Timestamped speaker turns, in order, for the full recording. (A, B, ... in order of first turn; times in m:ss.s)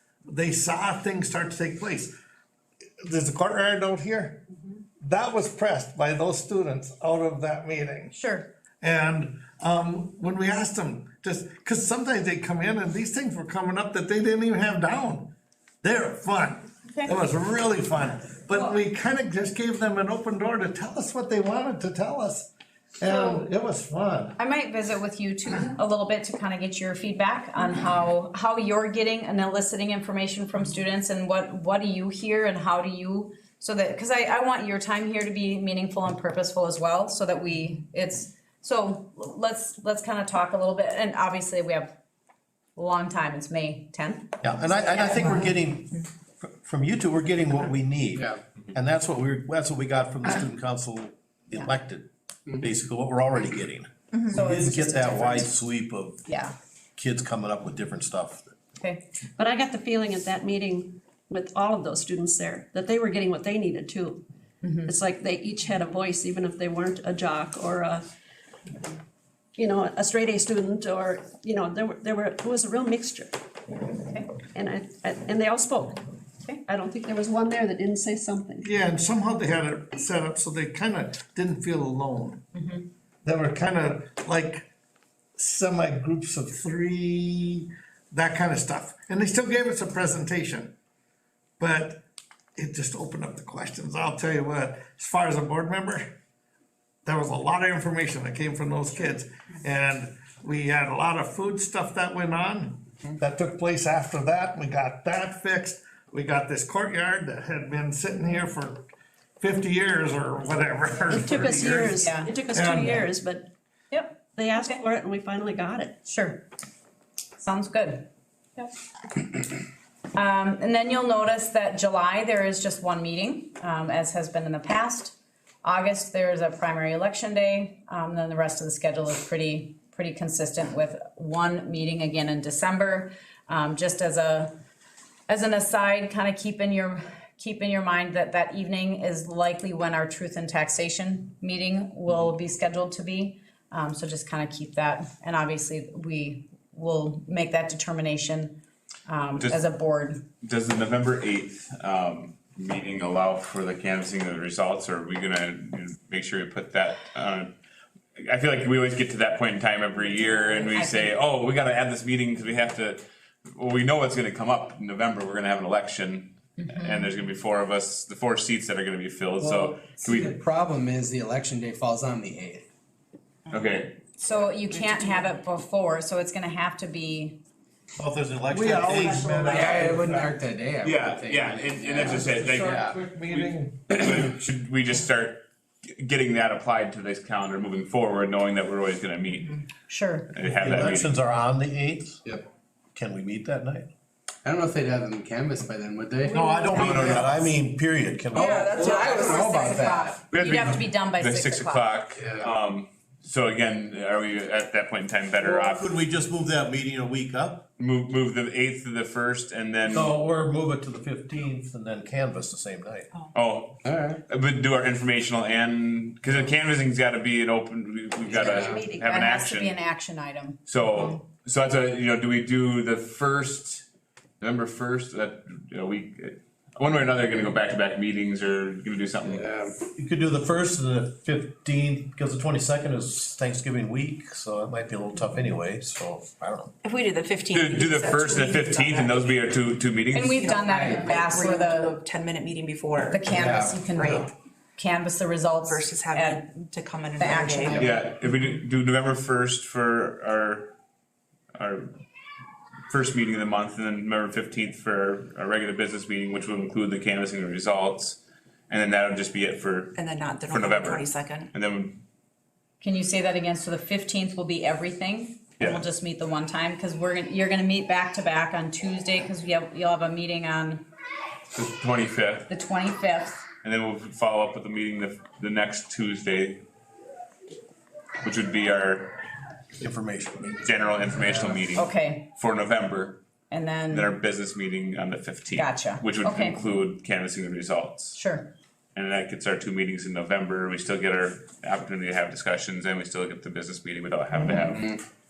0:00.3-0:02.1 A
0:03.0-0:04.4 A
0:05.0-0:08.1 A
0:08.1-0:08.5 B
0:08.8-0:24.4 A
0:23.0-0:23.4 B
0:24.4-0:41.9 B
0:42.8-0:44.4 B
0:44.4-0:56.2 C
0:54.3-0:55.5 B
0:56.2-0:56.5 B
0:57.0-0:58.5 C
0:59.4-1:04.2 D
1:04.6-1:04.9 B
1:04.8-1:08.0 D
1:09.6-1:13.3 D
1:14.0-1:14.3 B
1:14.5-1:16.0 D
1:16.6-1:18.7 D
1:18.6-1:22.4 A
1:22.5-1:22.8 B
1:23.2-1:24.7 A
1:25.4-1:30.7 A
1:31.6-1:32.0 A
1:32.6-1:36.1 A
1:37.0-1:48.8 A
1:49.4-1:53.1 A
1:51.1-1:53.5 D
1:51.9-1:52.3 B
1:53.9-1:54.8 B
1:54.3-1:56.0 D
1:56.0-1:56.4 B
1:57.4-1:58.1 B
2:00.1-2:14.5 B
2:15.3-2:30.2 B
2:30.4-2:37.5 E
2:38.2-2:50.3 E
2:40.1-2:41.2 B
2:46.6-2:47.1 B
2:49.4-2:52.7 F
2:53.5-2:54.0 E
2:54.2-2:57.4 B
2:58.0-2:59.9 C
2:58.5-3:00.2 A
2:59.3-2:59.7 G
2:59.4-3:03.0 F
3:00.8-3:09.6 E
3:02.2-3:03.8 A
3:09.9-3:10.3 B
3:10.3-3:11.2 E
3:10.4-3:12.2 C
3:12.9-3:13.9 C
3:14.4-3:17.2 F
3:16.3-3:17.0 B
3:16.3-3:19.0 C
3:16.7-3:17.4 E
3:18.3-3:22.0 B
3:18.3-3:20.2 F
3:20.3-3:25.9 E
3:22.2-3:22.5 F
3:25.4-3:27.7 C
3:27.8-3:30.1 E
3:29.9-3:33.1 C
3:33.3-3:39.8 E
3:33.8-3:34.2 F
3:38.2-3:38.8 F
3:38.4-3:38.6 D
3:38.6-3:39.0 G
3:39.0-3:40.6 B
3:40.6-3:43.8 E
3:44.4-3:49.4 E
3:49.2-3:49.7 F
3:49.9-3:56.7 C
3:56.8-3:59.3 G
3:57.5-4:00.4 E
4:00.1-4:02.0 B
4:00.3-4:03.2 G
4:00.7-4:01.0 F
4:03.0-4:06.6 B
4:03.3-4:03.7 C
4:03.8-4:04.3 G
4:05.6-4:08.0 G
4:07.2-4:07.9 B
4:07.7-4:10.7 E
4:11.5-4:11.9 E
4:12.9-4:22.0 E
4:19.9-4:21.5 G
4:22.8-4:30.9 B
4:25.6-4:25.8 E
4:31.5-4:32.5 E
4:32.5-4:33.4 B
4:33.6-4:36.6 E
4:38.2-4:39.2 E
4:39.8-4:40.6 C
4:40.6-4:43.2 E
4:41.7-4:42.3 B
4:43.5-4:44.1 B
4:43.9-4:48.2 E
4:45.5-4:46.6 B
4:48.1-4:48.5 B
4:48.9-4:54.9 E